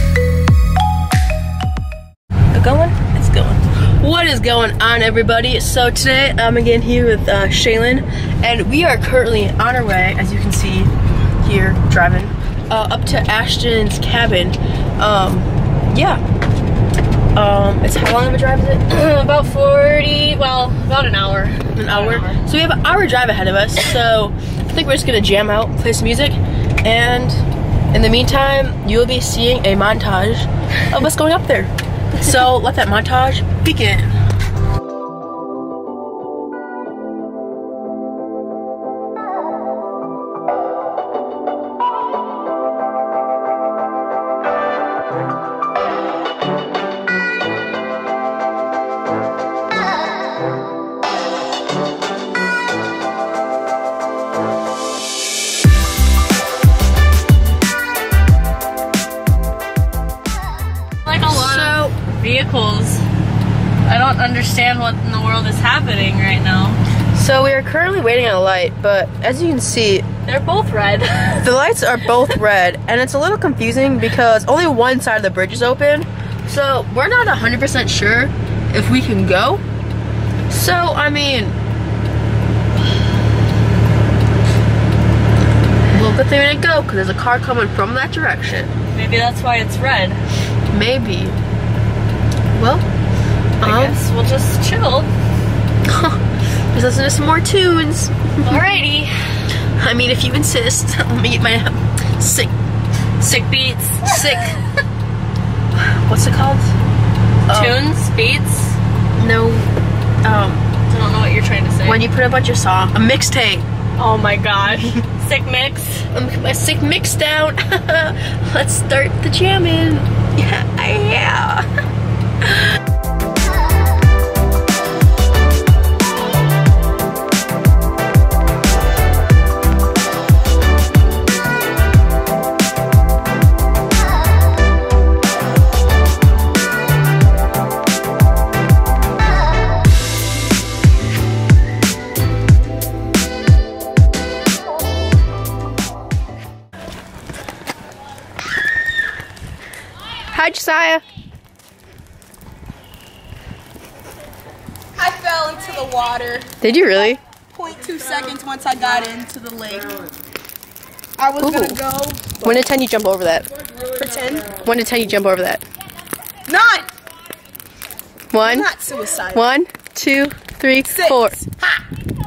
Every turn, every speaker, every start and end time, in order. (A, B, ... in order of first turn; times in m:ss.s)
0:02.5-0:10.9 A
0:11.4-0:16.2 A
0:17.3-0:18.8 A
0:18.9-0:22.4 B
0:21.7-0:34.1 A
1:01.0-1:03.0 B
1:01.3-1:01.9 A
1:03.8-1:06.8 B
1:07.1-1:10.1 A
1:10.2-1:11.4 B
1:11.4-1:19.6 A
1:20.5-1:21.5 A
1:25.9-1:28.7 A
1:28.9-1:30.2 B
1:30.7-1:31.4 A
1:32.5-1:32.8 A
1:33.6-1:34.0 A
1:33.6-1:35.1 B
1:35.8-1:36.2 A
1:36.7-1:38.6 A
1:38.4-1:39.4 B
1:39.8-1:42.5 A
1:43.2-1:44.6 B
1:44.0-1:44.5 A
1:45.8-1:46.7 A
1:47.5-1:47.8 A
1:47.5-1:48.8 B
1:49.2-1:49.7 A
1:50.2-1:50.6 A
1:50.9-1:52.0 B
1:51.8-1:53.6 A
1:54.0-1:56.1 B
1:56.1-2:01.6 A
2:30.3-2:31.0 A
2:35.0-2:36.4 C
2:36.6-2:37.2 A
2:37.5-2:39.9 C
2:41.2-2:42.6 C
2:41.4-2:41.8 A
2:42.4-2:43.4 A
2:43.9-2:44.5 C
2:44.6-2:45.6 A
2:46.5-2:46.9 C
2:48.3-2:48.7 A
2:48.3-2:49.5 C
2:49.3-2:51.4 A
2:50.8-2:51.7 C